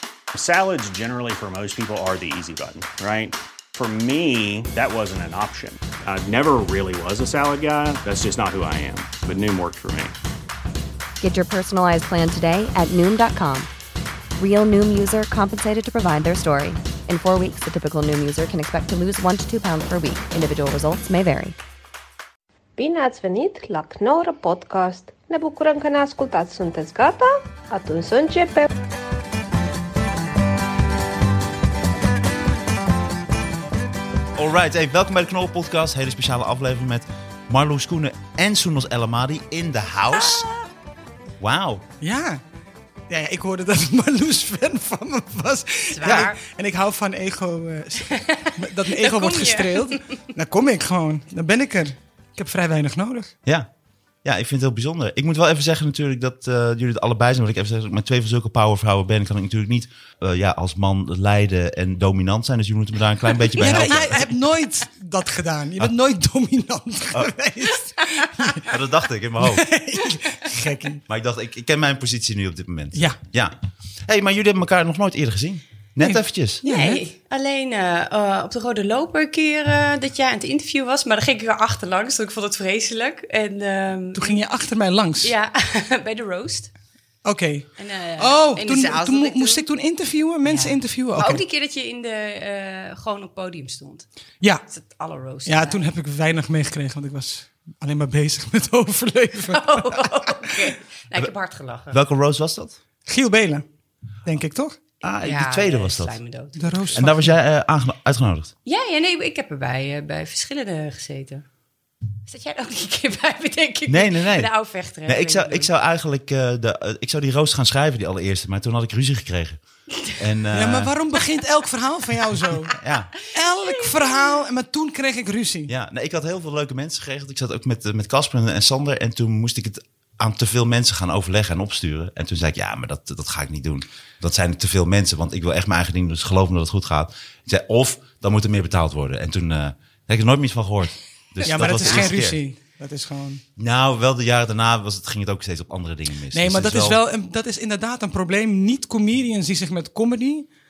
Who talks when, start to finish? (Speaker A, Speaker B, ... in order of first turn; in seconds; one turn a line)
Speaker A: 0.3-10.2
Speaker B: 11.2-13.7
Speaker B: 14.4-21.6
Speaker C: 22.8-28.7
Speaker D: 34.3-40.5
Speaker D: 41.4-41.9
Speaker E: 42.0-42.4
Speaker E: 43.1-53.3
Speaker F: 45.9-46.4
Speaker D: 46.0-46.3
Speaker F: 48.1-50.0
Speaker D: 54.2-64.3
Speaker E: 63.6-68.7
Speaker D: 68.7-69.7
Speaker E: 69.4-71.0
Speaker D: 71.1-73.5
Speaker D: 74.1-76.6
Speaker E: 76.0-77.0
Speaker F: 76.6-84.4
Speaker E: 84.2-85.3
Speaker F: 85.2-86.7
Speaker E: 87.2-91.4
Speaker F: 87.8-89.7
Speaker F: 90.5-94.1
Speaker F: 94.7-95.8
Speaker E: 95.5-100.6
Speaker F: 99.5-102.0
Speaker D: 101.9-102.8
Speaker E: 103.1-103.7
Speaker E: 104.3-104.8
Speaker D: 105.0-106.2
Speaker F: 105.2-107.0
Speaker E: 106.6-107.3
Speaker D: 107.0-108.5
Speaker F: 108.7-111.5
Speaker F: 112.2-115.7
Speaker D: 113.9-114.5
Speaker D: 115.1-119.6
Speaker D: 120.1-120.9
Speaker E: 120.5-125.7
Speaker D: 122.7-123.1
Speaker F: 123.7-124.3
Speaker D: 125.7-142.4
Speaker E: 141.4-143.4
Speaker D: 143.6-147.0
Speaker E: 146.3-150.5